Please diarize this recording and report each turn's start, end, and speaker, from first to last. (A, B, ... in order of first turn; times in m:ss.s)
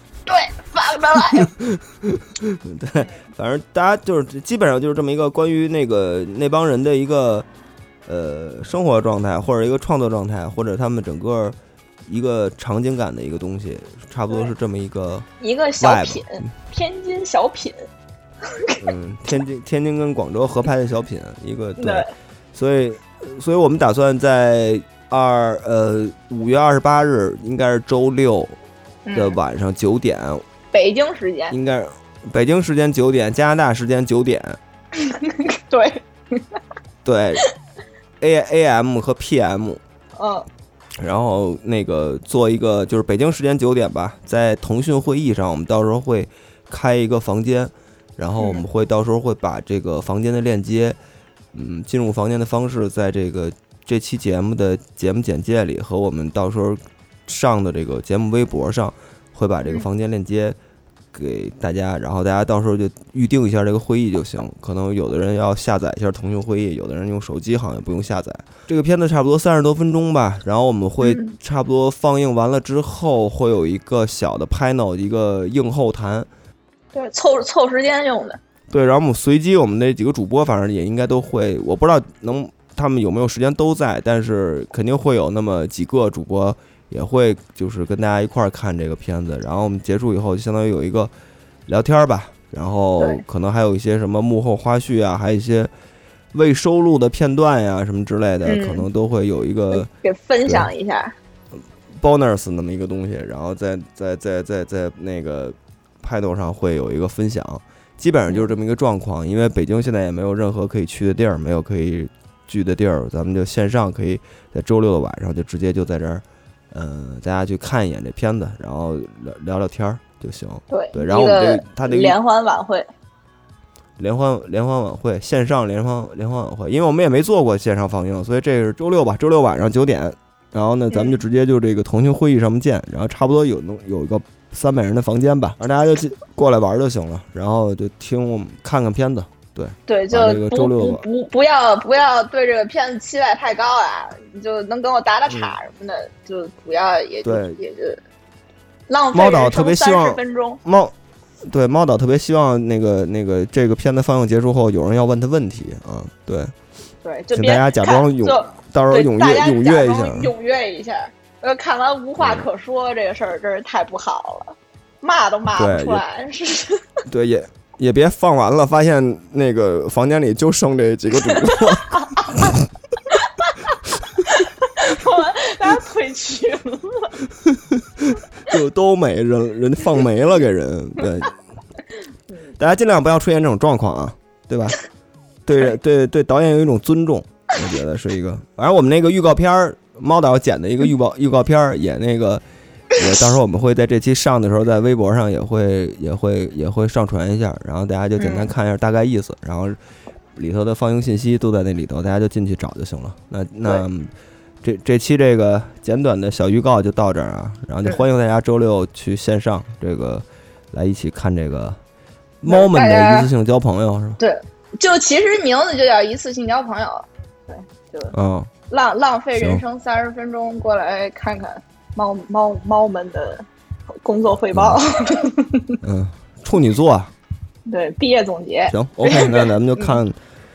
0:00.2-0:01.5 A
0:02.4-0:07.5 B
0:08.0-0:15.3 B
0:15.4-0:17.9 A
0:15.8-0:16.5 B
0:18.5-0:18.8 A
0:18.8-0:28.5 B
0:21.8-0:22.1 A
0:29.0-0:29.4 A
0:29.1-0:30.4 B
0:30.7-0:31.5 A
0:31.5-0:34.6 B
0:35.0-0:36.6 A
0:37.0-0:37.4 B
0:38.2-0:39.8 B
0:40.2-0:40.4 A
0:41.0-0:51.0 B
0:48.4-0:48.6 A
0:51.5-1:00.6 B
1:01.1-1:16.3 B
1:11.0-1:11.4 A
1:16.9-1:18.4 A
1:18.7-1:31.1 B
1:31.7-1:35.7 B
1:36.3-1:39.9 B
1:38.4-1:38.9 A
1:39.7-1:41.1 A
1:42.0-2:02.2 B
1:48.3-1:48.5 A
2:00.7-2:02.9 A
2:04.0-2:21.0 B
2:10.9-2:11.2 A
2:19.8-2:28.0 A
2:25.3-2:25.5 B
2:27.2-2:27.6 B
2:28.9-2:30.6 A
2:29.1-2:30.9 B
2:31.4-2:36.5 B
2:37.0-2:46.8 A
2:37.3-2:40.3 B
2:42.2-2:42.4 B
2:45.5-2:46.0 B
2:47.1-2:51.9 B
2:51.9-2:52.4 A
2:53.1-2:53.6 A
2:54.2-2:57.1 A
2:58.0-3:01.4 B
3:02.6-3:04.8 B
3:05.4-3:12.4 B
3:12.9-3:19.8 B
3:18.2-3:18.5 A
3:20.4-3:24.1 B
3:24.6-3:31.8 B
3:32.4-3:34.2 B
3:32.5-3:33.3 A
3:34.2-3:38.1 A
3:38.1-3:38.5 B
3:38.7-3:45.7 A
3:39.3-3:39.6 B
3:44.5-3:44.8 B
3:45.8-3:47.1 B
3:47.7-3:50.0 A
3:48.7-3:50.2 B